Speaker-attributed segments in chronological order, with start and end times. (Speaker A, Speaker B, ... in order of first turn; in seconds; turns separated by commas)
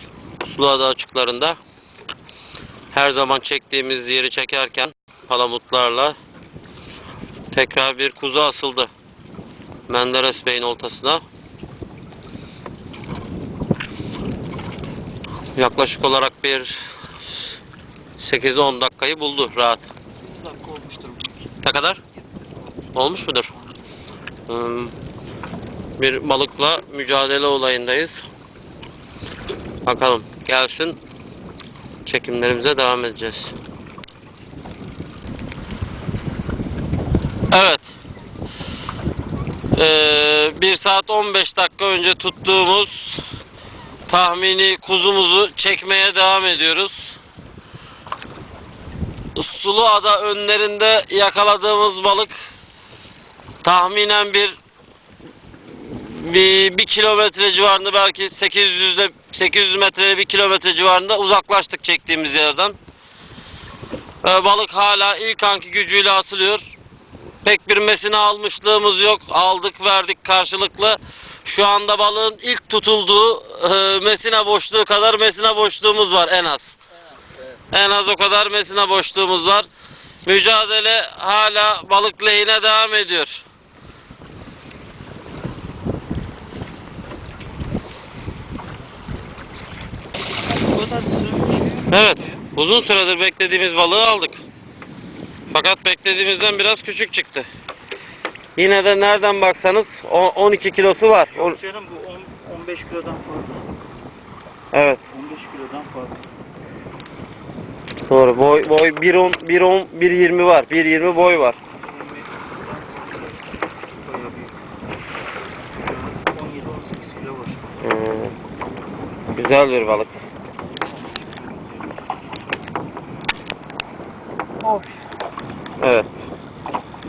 Speaker A: 0.4-1.6, Speaker A: 2.9-6.2, Speaker A: 7.5-8.9, Speaker A: 9.9-11.2, Speaker A: 15.5-17.5, Speaker A: 18.2-19.9, Speaker B: 20.2-23.9, Speaker A: 21.6-22.0, Speaker A: 22.9-23.5, Speaker A: 24.5-24.9, Speaker A: 26.0-28.3, Speaker A: 29.9-31.0, Speaker A: 32.0-33.5, Speaker A: 37.5-38.0, Speaker A: 39.7-43.2, Speaker A: 44.1-47.2, Speaker A: 49.4-52.5, Speaker A: 53.6-54.6, Speaker A: 55.7-62.8, Speaker A: 64.2-66.7, Speaker A: 67.4-76.8, Speaker A: 77.7-79.7, Speaker A: 80.2-83.4, Speaker B: 90.6-92.4, Speaker A: 91.9-94.4, Speaker A: 95.5-97.5, Speaker A: 98.6-101.6, Speaker B: 101.3-103.8, Speaker A: 104.7-105.0, Speaker B: 105.1-106.3, Speaker A: 108.1-111.6, Speaker B: 111.7-114.6, Speaker B: 115.8-117.8, Speaker A: 117.8-118.3, Speaker A: 119.3-120.1, Speaker B: 120.8-122.0, Speaker B: 124.6-124.9, Speaker A: 125.8-126.2